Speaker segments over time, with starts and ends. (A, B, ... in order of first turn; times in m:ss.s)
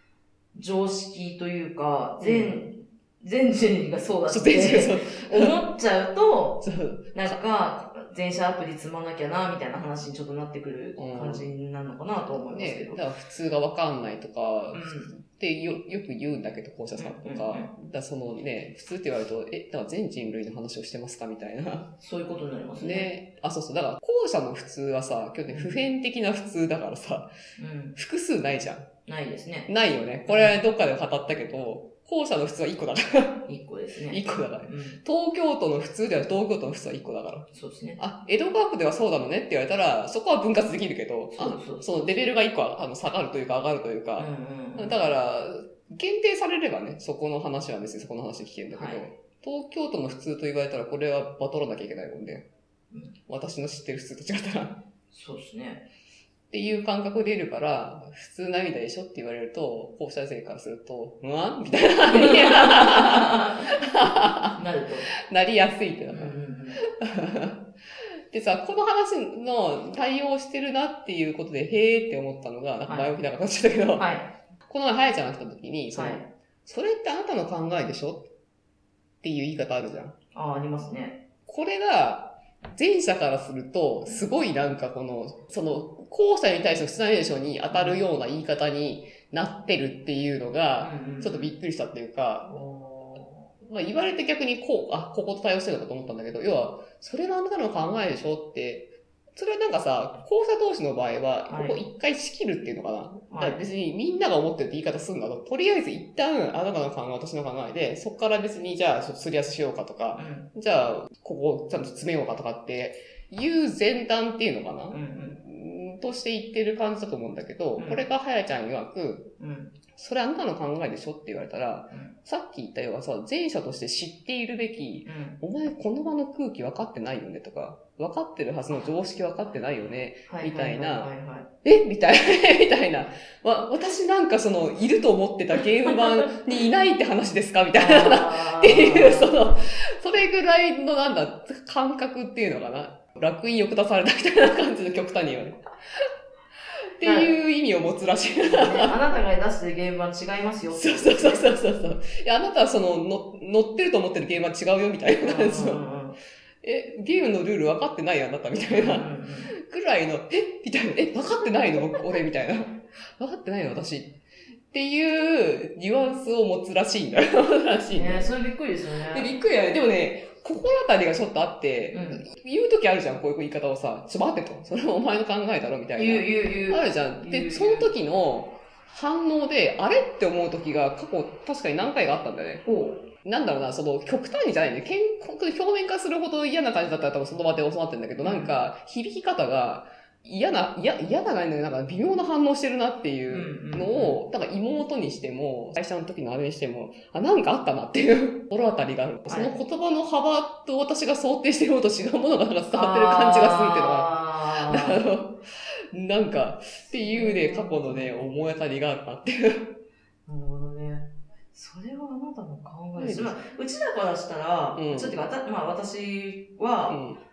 0:00.5-0:06.6 A
0:02.2-0:02.6 B
0:04.3-0:05.6 B
0:06.6-0:07.4 B
0:07.1-0:13.0 A
0:11.0-0:11.5 B
0:12.5-0:21.9 B
0:14.7-0:15.1 A
0:17.0-0:17.7 A
0:22.0-0:23.1 A
0:22.8-0:27.3 B
0:25.5-0:25.8 A
0:27.6-0:28.0 A
0:28.0-0:28.9 B
0:29.0-0:29.7 A
0:29.7-0:33.4 B
0:30.3-0:30.6 A
0:33.5-0:35.0 A
0:34.1-0:37.5 B
0:37.5-0:38.0 A
0:38.0-0:52.4 B
0:41.3-0:42.1 A
0:44.2-0:45.0 A
0:48.7-0:49.0 A
0:53.3-0:54.8 B
0:55.1-0:55.8 A
0:56.5-1:04.6 B
1:02.1-1:03.6 A
1:04.5-1:05.1 A
1:05.3-1:07.6 B
1:06.1-1:06.8 A
1:08.3-1:14.1 B
1:12.9-1:13.1 A
1:14.0-1:14.2 A
1:14.6-1:18.3 B
1:15.9-1:16.3 A
1:19.2-1:20.2 B
1:20.3-1:21.2 A
1:21.4-1:32.6 B
1:27.7-1:28.0 A
1:30.8-1:31.5 A
1:32.5-1:33.5 A
1:33.6-1:59.3 B
1:41.5-1:41.8 A
1:43.3-1:43.6 A
1:50.1-1:50.5 A
1:54.9-1:55.4 A
1:57.8-1:58.0 A
1:59.4-1:59.8 A
1:59.9-2:11.1 B
2:05.0-2:05.4 A
2:10.3-2:11.5 A
2:11.6-2:26.1 B
2:17.7-2:19.3 A
2:27.0-2:28.9 B
2:27.0-2:27.3 A
2:28.5-2:31.5 A
2:30.7-2:35.8 B
2:35.2-2:36.2 A
2:36.6-2:44.2 B
2:38.7-2:39.5 A
2:44.7-2:48.3 B
2:47.9-2:49.3 A
2:49.1-3:02.6 B
2:51.9-2:52.2 A
2:56.0-2:57.9 A
3:02.6-3:03.0 A
3:03.2-3:25.4 B
3:08.2-3:08.5 A
3:13.3-3:14.2 A
3:19.3-3:19.6 A
3:22.7-3:25.0 A
3:25.9-3:29.7 B
3:27.0-3:28.3 A
3:30.2-3:37.0 A
3:32.9-3:33.4 B
3:34.8-3:35.2 B
3:36.9-3:37.2 B